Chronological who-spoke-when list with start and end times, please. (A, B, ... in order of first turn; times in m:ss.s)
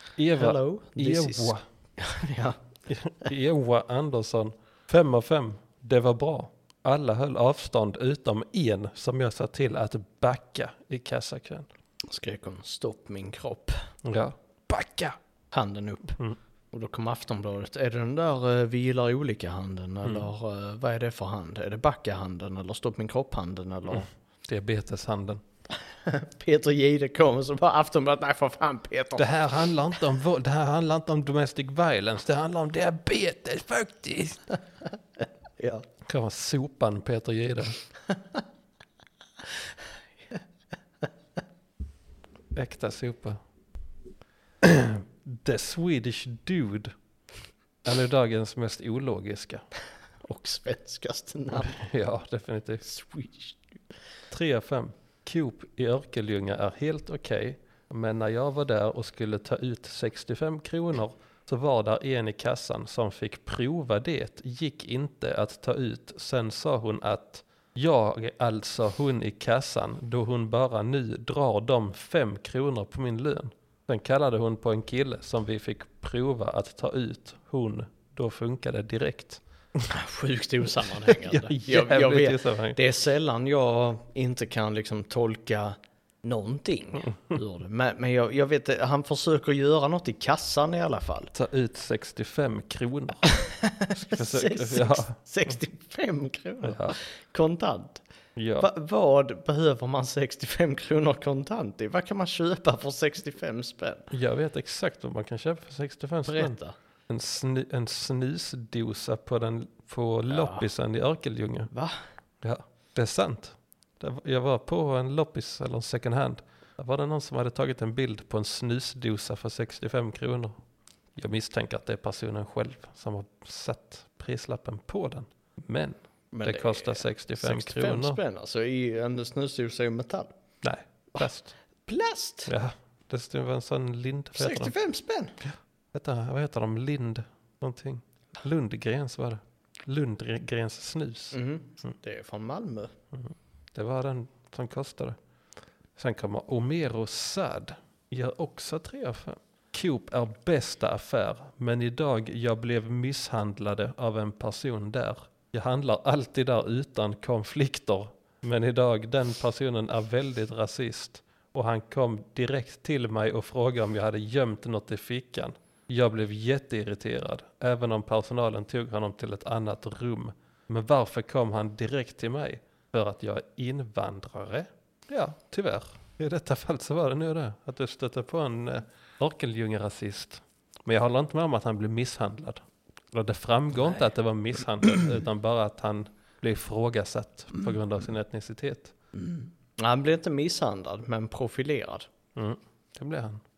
0:00.2-0:01.6 A
0:00.4-0:02.6 B
0:02.9-0:11.7 A
0:12.1-0:13.8 B
0:14.0-0:15.2 A
0:15.5-0:16.2 B
0:16.7-0:24.1 B
0:20.0-0:20.3 A
0:23.9-0:25.4 A
0:26.0-0:29.3 B
0:29.2-0:34.5 A
0:35.6-0:35.8 B
0:36.0-0:37.8 A
0:42.5-0:43.4 A
0:44.6-0:46.9 A
0:47.8-0:49.6 A
0:50.2-0:51.8 B
0:51.5-0:52.9 A
0:52.8-0:53.6 B
0:54.3-1:19.4 A
1:19.9-1:31.3 B
1:21.0-1:22.8 A
1:31.3-1:33.3 A
1:33.3-1:38.0 B
1:34.0-1:35.2 A
1:36.6-1:37.0 A
1:38.4-1:38.7 A
1:38.6-1:44.1 B
1:44.1-1:46.6 A
1:46.3-1:46.8 B
1:47.1-1:51.7 A
1:50.3-1:50.7 B
1:51.7-1:52.0 B
1:52.4-2:00.6 A
2:01.2-2:08.2 A
2:06.3-2:10.3 B
2:10.6-2:11.5 A
2:11.9-2:12.5 B
2:12.5-2:14.7 A
2:14.4-2:15.4 B
2:15.4-2:21.4 A
2:21.3-2:22.9 B
2:23.1-2:25.2 A
2:26.0-3:08.9 A
3:09.2-3:12.1 B
3:12.4-3:13.4 A